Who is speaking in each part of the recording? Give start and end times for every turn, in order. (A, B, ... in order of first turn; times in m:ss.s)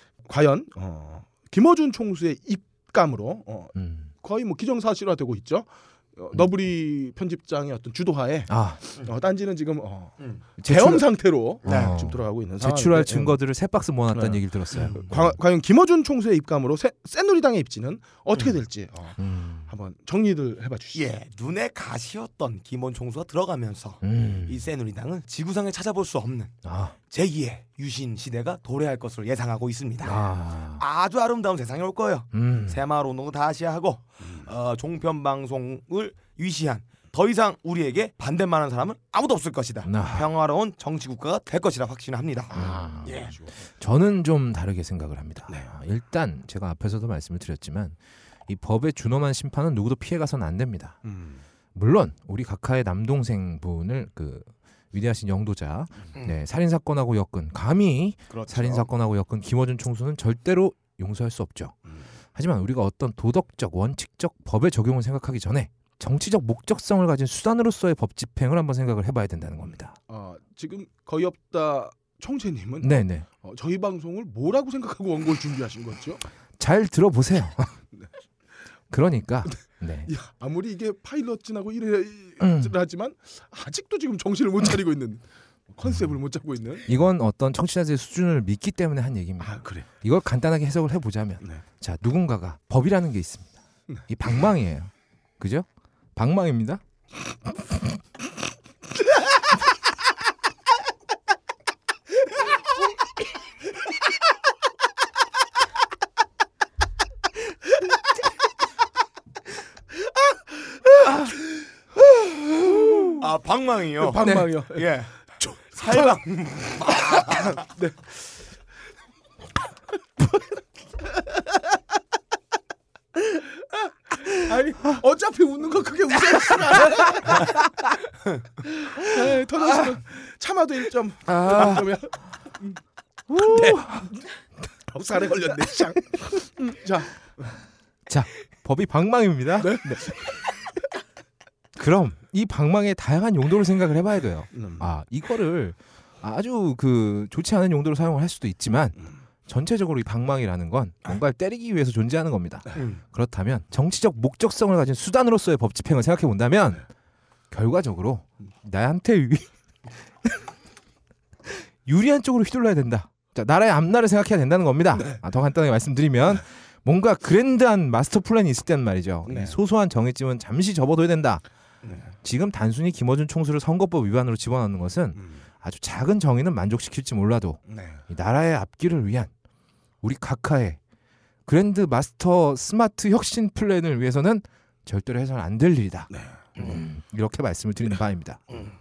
0:00.2-0:13.4 A
0:03.8-0:04.1 B
0:08.5-0:08.8 B
0:10.6-0:11.1 B
0:11.6-0:15.4 B
0:11.7-0:11.9 C
0:14.1-0:21.0 A
0:14.7-0:15.0 C
0:19.2-0:19.7 B
0:20.9-0:26.5 C
0:24.0-0:24.7 B
0:26.6-0:27.0 B
0:27.1-0:43.3 C
0:30.0-0:30.8 B
0:32.3-0:32.8 B
0:39.8-0:40.3 B
0:42.5-0:43.5 A
0:42.6-0:48.0 B
0:48.5-0:51.0 B
0:51.0-0:51.4 A
0:51.8-1:01.8 B
0:58.3-0:58.9 C
1:02.4-1:10.0 B
1:10.1-1:16.2 A
1:12.8-1:13.3 B
1:16.6-1:17.8 B
1:18.9-1:20.1 B
1:20.1-1:26.9 A
1:22.4-1:22.7 B
1:26.9-1:33.5 B
1:29.4-1:29.8 A
1:34.1-1:36.8 B
1:50.5-1:51.4 A
1:52.0-1:53.2 A
1:53.2-1:57.6 C
1:54.0-1:56.2 A
1:54.2-1:54.5 B
1:56.8-1:58.0 A
2:03.3-2:07.6 A
2:08.6-2:12.8 A
2:11.3-2:11.9 B
2:13.3-2:14.1 B
2:13.4-2:14.2 A
2:14.9-2:17.5 A
2:18.1-2:20.1 B
2:19.6-2:20.4 A
2:21.8-2:36.8 B
2:24.6-2:24.9 A
2:37.5-2:39.4 B
2:41.9-2:51.4 B
2:49.3-2:49.6 A
2:52.2-2:59.3 B
2:57.7-2:58.0 A
3:00.0-3:00.8 B
3:01.5-3:08.4 B
3:06.1-3:06.7 A